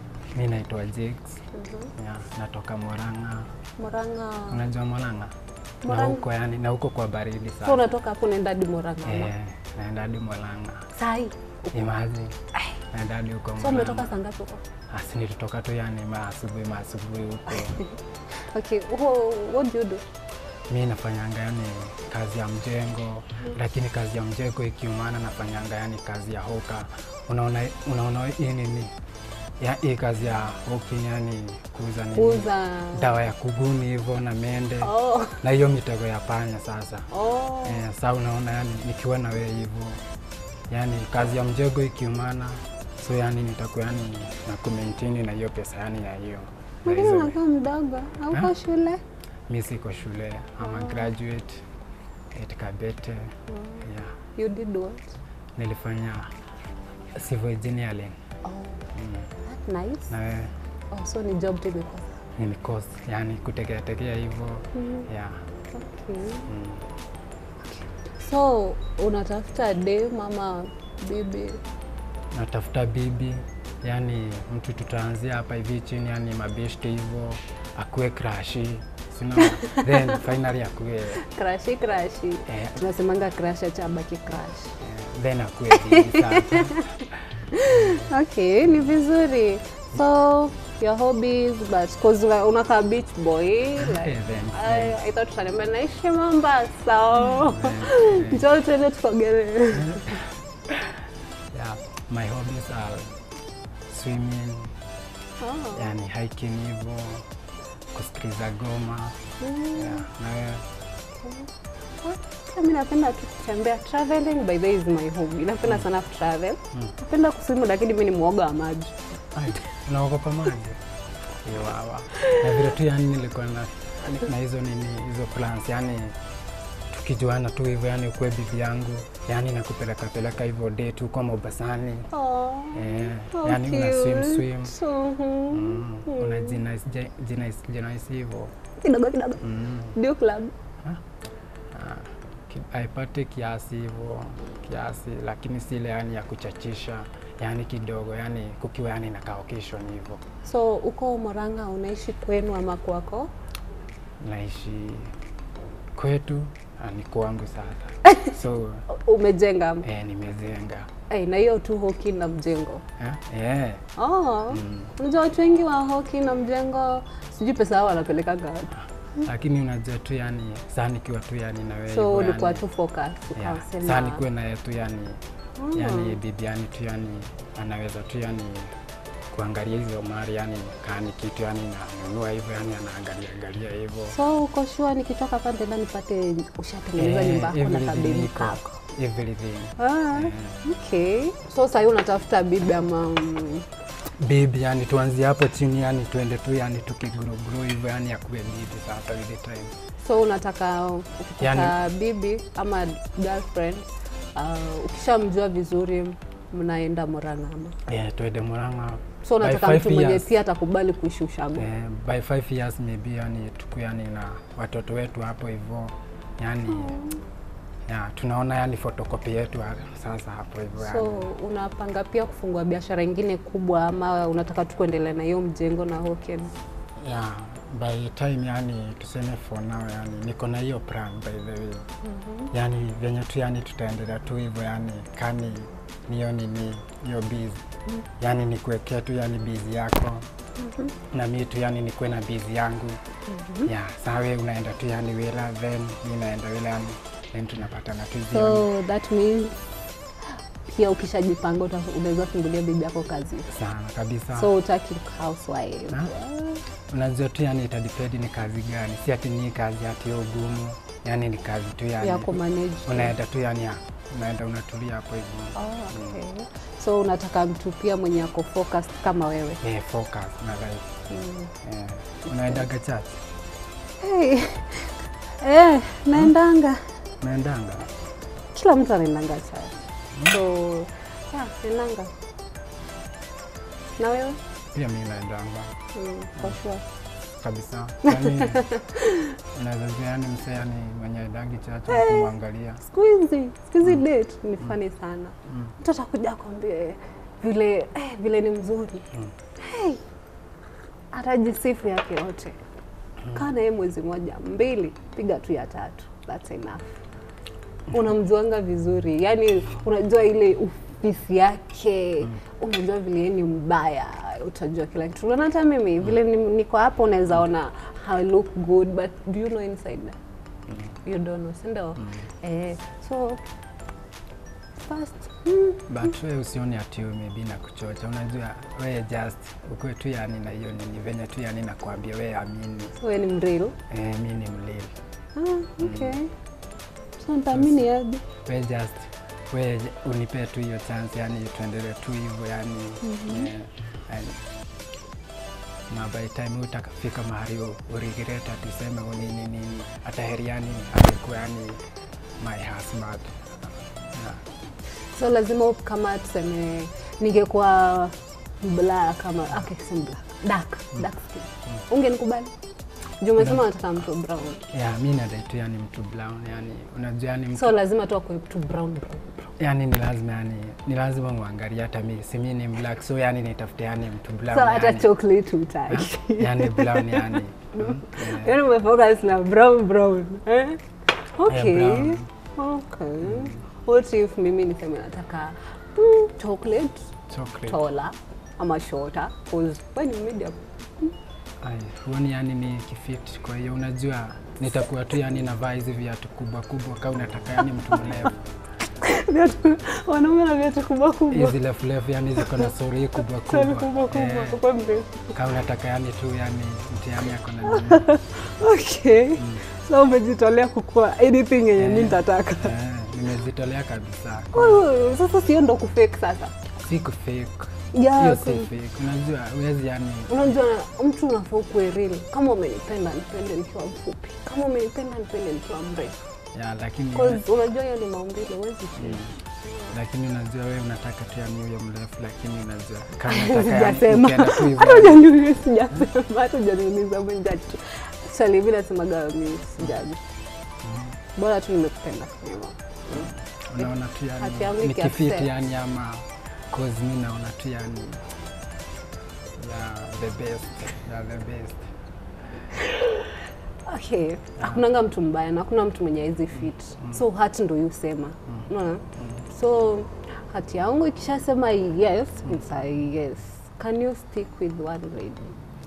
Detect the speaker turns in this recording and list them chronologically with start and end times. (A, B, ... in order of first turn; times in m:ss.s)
0:00.4-0:01.4 A
0:01.5-0:01.9 B
0:02.0-0:03.5 A
0:03.8-0:04.6 B
0:04.5-0:05.3 A
0:05.8-0:06.2 B
0:05.9-0:07.8 A
0:07.6-0:09.3 B
0:09.0-0:10.8 A
0:10.9-0:11.8 B
0:11.7-0:12.4 A
0:12.9-0:14.1 A
0:13.6-0:14.6 B
0:14.9-0:17.8 A
0:17.6-0:17.9 B
0:18.4-0:20.0 B
0:20.7-0:28.9 A
0:29.6-0:37.1 A
0:32.1-0:33.1 B
0:34.8-0:35.4 B
0:37.1-0:37.8 B
0:37.6-0:40.0 A
0:40.7-0:47.4 A
0:46.9-0:49.0 B
0:49.5-0:51.6 A
0:50.6-0:51.1 B
0:52.3-0:54.2 A
0:53.5-0:55.1 B
0:55.6-0:56.3 A
0:57.2-0:58.2 A
0:58.4-0:58.8 B
0:58.9-0:59.3 A
0:59.4-1:00.1 B
1:00.1-1:00.5 A
1:00.9-1:02.2 B
1:02.4-1:05.4 A
1:04.8-1:05.1 B
1:05.7-1:06.5 B
1:06.5-1:06.8 A
1:07.6-1:11.6 B
1:12.3-1:21.2 A
1:19.4-1:20.2 B
1:21.2-1:24.8 B
1:22.5-1:22.8 A
1:24.8-1:26.9 A
1:25.7-1:26.8 B
1:27.5-1:40.2 B
1:27.7-1:28.1 A
1:33.8-1:35.0 A
1:37.1-1:38.5 A
1:39.8-1:40.9 A
1:41.5-1:43.2 A
1:43.9-1:44.7 A
1:45.4-1:45.9 B
1:45.7-1:47.3 A
1:47.9-1:49.2 A
1:49.4-1:50.1 B
1:49.7-1:50.6 A
1:51.2-1:51.5 B
1:52.0-1:59.0 B
1:59.3-2:00.8 A
2:01.4-2:06.2 A
2:06.9-2:12.1 A
2:12.1-2:16.6 B
2:12.7-2:14.8 A
2:15.5-2:18.5 A
2:18.8-2:20.5 B
2:19.4-2:19.9 A
2:21.7-2:30.2 A
2:30.4-2:33.3 B
2:34.2-2:35.1 A
2:35.9-2:38.9 A
2:38.0-2:38.3 B
2:38.9-2:39.9 B
2:39.8-2:40.9 A
2:41.1-2:42.8 B
2:43.0-2:43.8 A
2:44.0-2:48.7 B
2:44.5-2:44.9 A
2:48.7-2:52.6 A
2:51.9-2:54.2 B
2:53.3-2:55.2 A
2:55.6-2:56.2 B
2:55.7-2:58.7 A
2:59.3-3:04.2 A
3:04.1-3:08.8 B
3:07.0-3:10.6 A
3:09.8-3:13.7 B
3:14.2-3:19.7 A
3:20.0-3:27.8 B
3:21.4-3:21.8 A
3:27.8-3:30.3 A
3:29.2-3:31.7 B
3:31.6-3:37.0 A
3:36.7-3:37.2 B
3:37.9-3:41.3 A
3:40.8-3:46.5 B
3:47.0-3:51.8 A
3:52.0-3:52.5 B
3:52.5-3:57.6 A
3:58.2-4:00.3 A
4:00.6-4:00.9 B
4:01.1-4:03.0 A
4:03.3-4:03.7 B
4:03.6-4:08.7 A
4:08.3-4:09.6 B
4:10.6-4:13.5 B
4:13.5-4:14.5 A
4:14.3-4:16.6 B
4:16.9-4:26.2 A
4:22.0-4:23.2 B
4:25.6-4:29.6 B
4:29.6-4:30.9 A
4:31.1-4:31.5 B
4:31.6-4:33.2 A
4:34.0-4:36.8 B
4:37.2-4:37.9 A
4:38.5-4:42.1 B
4:44.0-4:44.4 B
4:44.7-4:45.8 A
4:45.9-4:46.8 B
4:47.4-4:48.7 A
4:48.1-4:49.4 B
4:49.5-4:52.8 A
4:51.9-4:52.3 B
4:52.8-4:59.1 B
4:55.5-4:55.7 A
4:59.6-5:00.0 B
5:01.1-5:02.6 B
5:03.3-5:06.9 B
5:07.9-5:20.2 B
5:21.0-5:23.4 B
5:22.0-5:22.3 A
5:24.8-5:26.1 B
5:25.9-5:32.9 A
5:33.0-5:33.8 B
5:33.9-5:34.9 A
5:35.4-5:36.3 B
5:35.8-5:36.2 A
5:37.2-5:38.2 B
5:37.5-5:37.9 A
5:38.4-5:44.4 A
5:43.0-5:43.5 B
5:45.9-5:51.8 A
5:52.4-5:54.4 A
5:55.0-6:02.5 B
6:03.2-6:04.6 B
6:03.4-6:03.6 A
6:04.7-6:07.8 A
6:07.5-6:09.5 B
6:09.6-6:15.1 A
6:14.5-6:27.1 B
6:15.9-6:18.6 A
6:21.5-6:22.2 A
6:23.2-6:23.6 A
6:27.3-6:27.8 A
6:27.6-6:31.1 B
6:31.6-6:38.4 A
6:38.9-6:41.6 B
6:41.3-6:44.6 A
6:42.4-6:42.7 B
6:43.4-6:45.4 B
6:45.3-6:48.1 A
6:47.6-6:52.7 B
6:49.4-6:49.6 A
6:51.8-6:54.8 A
6:54.5-6:56.6 B
6:56.8-7:00.4 A
6:57.9-6:58.7 B
7:00.3-7:06.2 B
7:06.5-7:07.4 A
7:07.1-7:09.9 B
7:09.0-7:09.4 A
7:09.9-7:15.3 A
7:13.3-7:20.2 B
7:20.8-7:21.2 A
7:21.4-7:25.6 B
7:23.1-7:28.2 A
7:29.6-7:31.9 A
7:32.7-7:33.3 B
7:33.9-7:45.6 B
7:39.2-7:39.4 A